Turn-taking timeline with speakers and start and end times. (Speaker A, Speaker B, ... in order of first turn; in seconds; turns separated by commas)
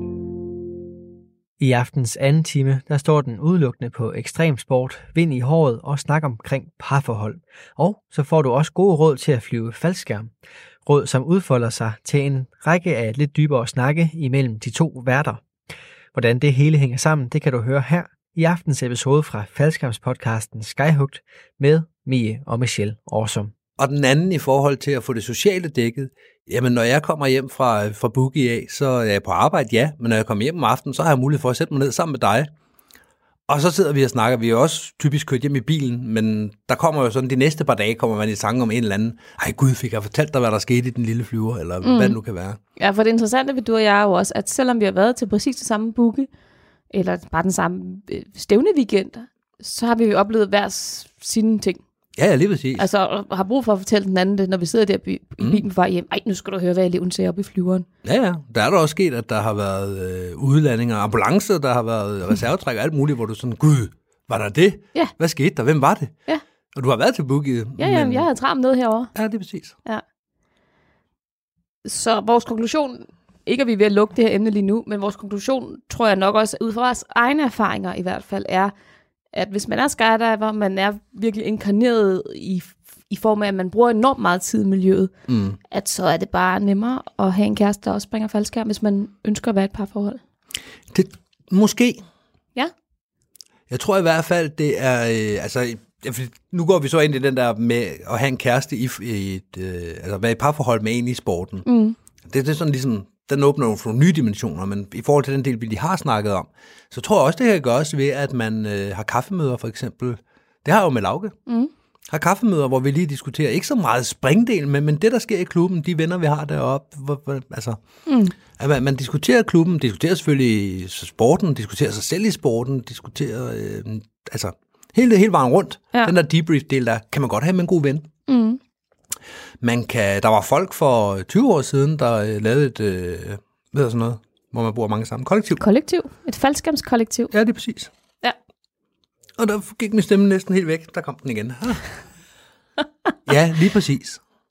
Speaker A: 1.6-10.3, Speaker A: 10.8-15.4, Speaker A: 16.1-23.5, Speaker B: 23.8-32.5, Speaker B: 33.5-42.6, Speaker C: 41.8-42.2, Speaker C: 42.8-46.3, Speaker C: 46.9-51.8, Speaker B: 52.1-52.9, Speaker C: 52.8-57.9, Speaker B: 58.0-66.1, Speaker B: 66.7-68.3, Speaker C: 67.8-69.1, Speaker B: 69.1-69.7, Speaker C: 71.8-78.7, Speaker C: 79.3-85.1, Speaker B: 85.3-85.6, Speaker C: 85.7-90.2, Speaker B: 90.9-92.0, Speaker B: 93.7-101.7, Speaker C: 101.6-102.0, Speaker B: 102.2-111.3, Speaker B: 112.1-117.8, Speaker C: 118.0-118.3, Speaker B: 118.6-128.1, Speaker C: 128.3-128.6, Speaker B: 129.6-135.6, Speaker C: 135.6-137.3, Speaker B: 137.3-137.9, Speaker B: 139.4-141.9, Speaker B: 143.2-144.2